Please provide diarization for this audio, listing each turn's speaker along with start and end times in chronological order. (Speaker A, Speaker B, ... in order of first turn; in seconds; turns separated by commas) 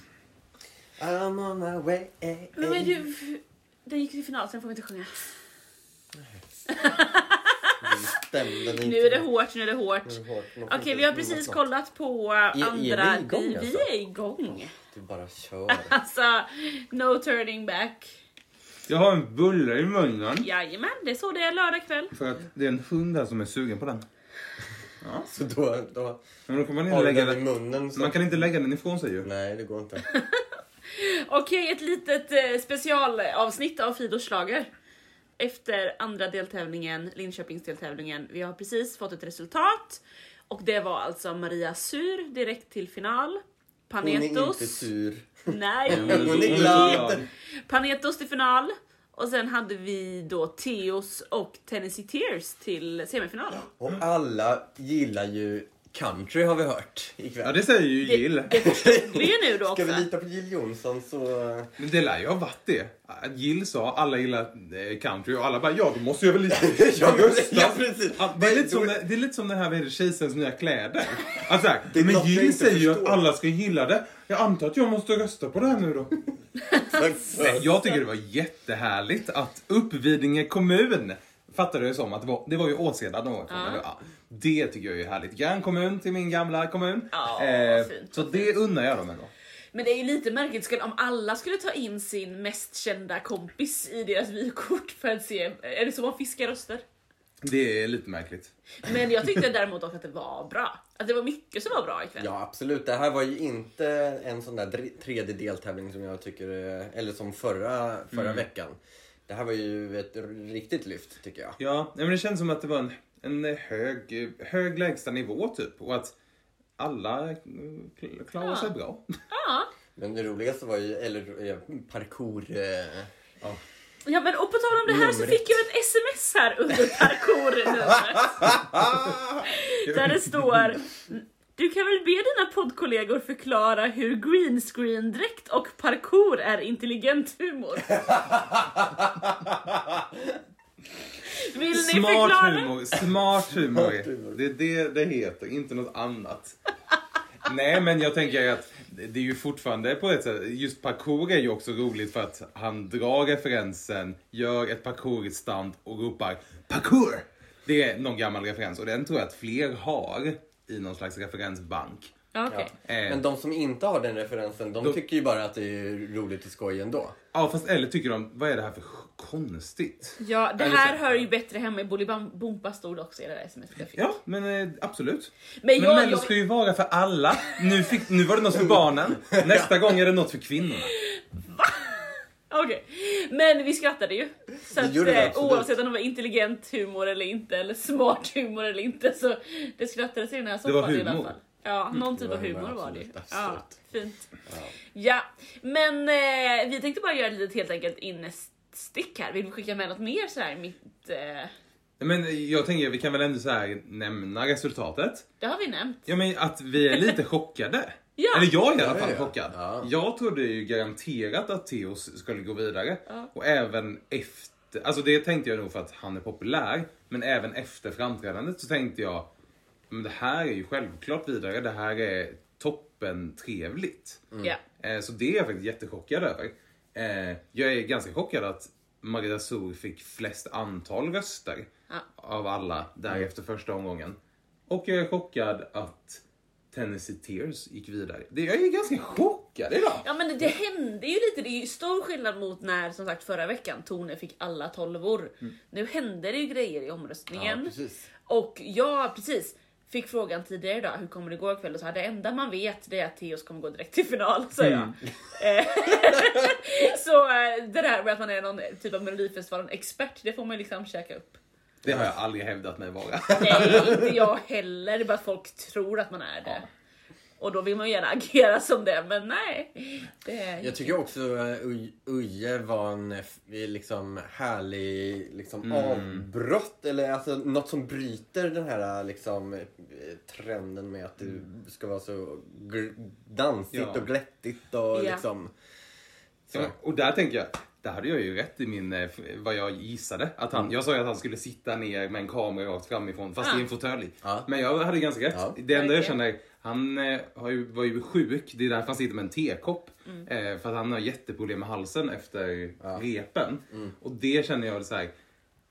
Speaker A: 1.0-3.1, Speaker B: 2.6-5.3, Speaker B: 6.7-7.9, Speaker A: 7.8-9.3, Speaker B: 8.8-14.7, Speaker A: 10.1-11.6, Speaker A: 12.5-13.9, Speaker A: 14.8-15.9, Speaker B: 15.7-18.1, Speaker C: 18.9-20.5, Speaker B: 20.4-22.1, Speaker C: 22.1-24.1, Speaker C: 25.0-25.3, Speaker A: 25.3-26.2, Speaker C: 26.5-27.4, Speaker A: 26.9-28.5, Speaker C: 27.9-29.3, Speaker A: 29.2-30.0, Speaker B: 30.1-34.7, Speaker B: 35.4-44.9, Speaker A: 44.0-47.3, Speaker B: 45.5-47.1, Speaker C: 45.9-47.3, Speaker B: 47.7-53.7, Speaker A: 53.8-57.6, Speaker C: 57.4-58.6, Speaker B: 58.0-60.1, Speaker A: 58.6-61.7, Speaker C: 61.8-76.2, Speaker A: 66.5-69.0, Speaker A: 71.9-73.2, Speaker A: 76.7-77.7, Speaker C: 77.3-89.3, Speaker B: 83.5-83.8, Speaker B: 87.1-88.5, Speaker B: 89.7-96.8, Speaker C: 97.4-98.5, Speaker B: 98.8-102.3, Speaker A: 102.2-111.6, Speaker C: 108.1-108.4, Speaker C: 111.6-116.2, Speaker C: 116.8-119.0, Speaker B: 118.4-118.7, Speaker B: 119.3-119.7, Speaker A: 120.0-123.1, Speaker B: 124.1-128.5, Speaker A: 124.9-125.6, Speaker B: 129.4-138.1, Speaker C: 129.8-130.7, Speaker A: 138.2-140.0, Speaker B: 141.2-142.7, Speaker C: 141.7-146.6, Speaker A: 143.7-144.4, Speaker C: 147.4-162.1, Speaker B: 162.3-162.7, Speaker A: 162.5-167.2, Speaker C: 162.8-163.2, Speaker C: 167.3-171.0, Speaker B: 170.2-174.1, Speaker C: 174.0-180.9, Speaker B: 175.6-176.3, Speaker A: 179.3-179.8, Speaker B: 180.9-194.3, Speaker A: 184.7-185.8, Speaker C: 190.7-191.3, Speaker A: 191.9-193.7, Speaker A: 194.5-194.7, Speaker B: 194.9-201.5, Speaker C: 202.0-205.3, Speaker B: 205.4-206.1, Speaker C: 206.1-219.3, Speaker B: 206.9-207.2, Speaker B: 208.2-208.5, Speaker A: 208.8-209.9, Speaker C: 219.9-224.3, Speaker C: 224.8-234.2, Speaker C: 234.7-240.1, Speaker B: 240.0-247.7, Speaker A: 247.3-248.1, Speaker B: 248.3-261.4, Speaker C: 254.6-255.0, Speaker A: 261.8-262.1, Speaker C: 261.9-264.1, Speaker B: 263.4-266.7, Speaker A: 263.5-264.1, Speaker B: 267.4-271.0, Speaker A: 270.6-285.5, Speaker C: 275.6-276.3, Speaker C: 283.7-284.1, Speaker B: 284.9-285.2, Speaker C: 286.5-305.1, Speaker B: 293.4-293.7, Speaker A: 294.2-294.5, Speaker B: 295.7-296.2